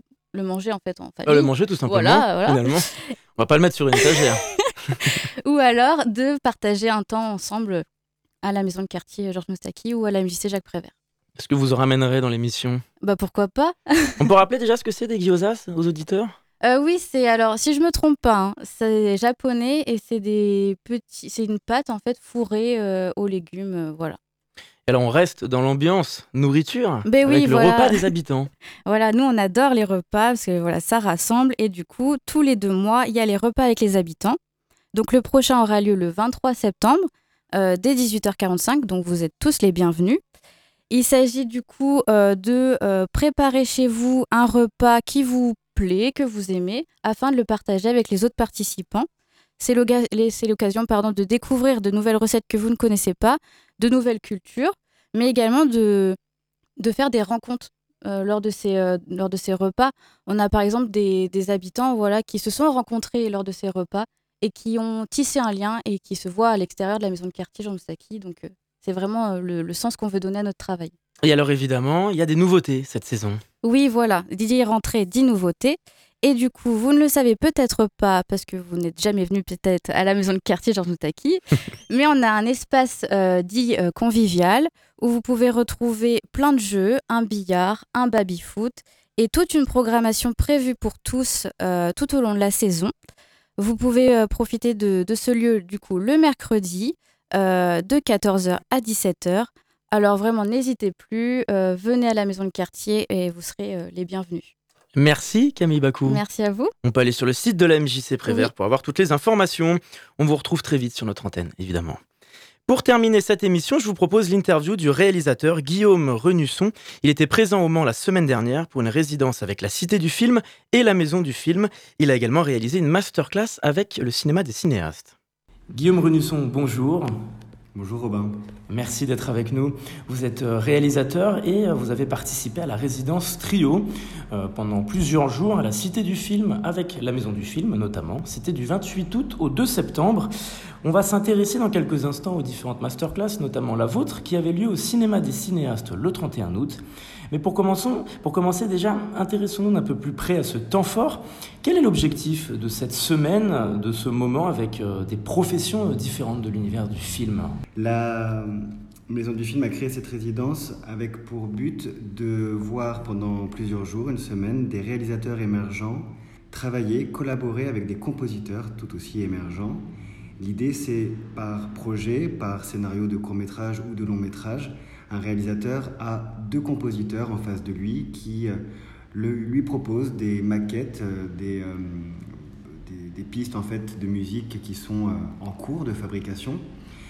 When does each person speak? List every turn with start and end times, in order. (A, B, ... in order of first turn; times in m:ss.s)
0:00.3-0:03.1 A
0:01.2-0:04.4 B
0:05.0-0:07.8 A
0:08.4-0:10.9 A
0:11.4-0:12.8 B
0:13.0-0:14.2 A
0:14.2-0:16.3 B
0:16.6-0:24.2 A
0:24.9-0:28.5 B
0:27.0-0:28.0 A
0:28.8-0:34.4 A
0:34.9-0:40.2 A
0:40.9-0:49.1 A
0:49.6-0:56.2 A
0:56.8-1:10.9 A
1:11.2-1:13.4 B
1:13.6-1:32.9 A
1:33.6-1:44.5 A
1:45.0-1:46.2 B
1:46.0-1:46.7 A
1:46.8-1:52.0 B
1:52.7-2:05.1 B
2:05.7-2:07.1 B
2:07.7-2:08.4 C
2:08.7-2:20.3 B
2:20.8-2:37.6 B
2:37.8-3:06.6 C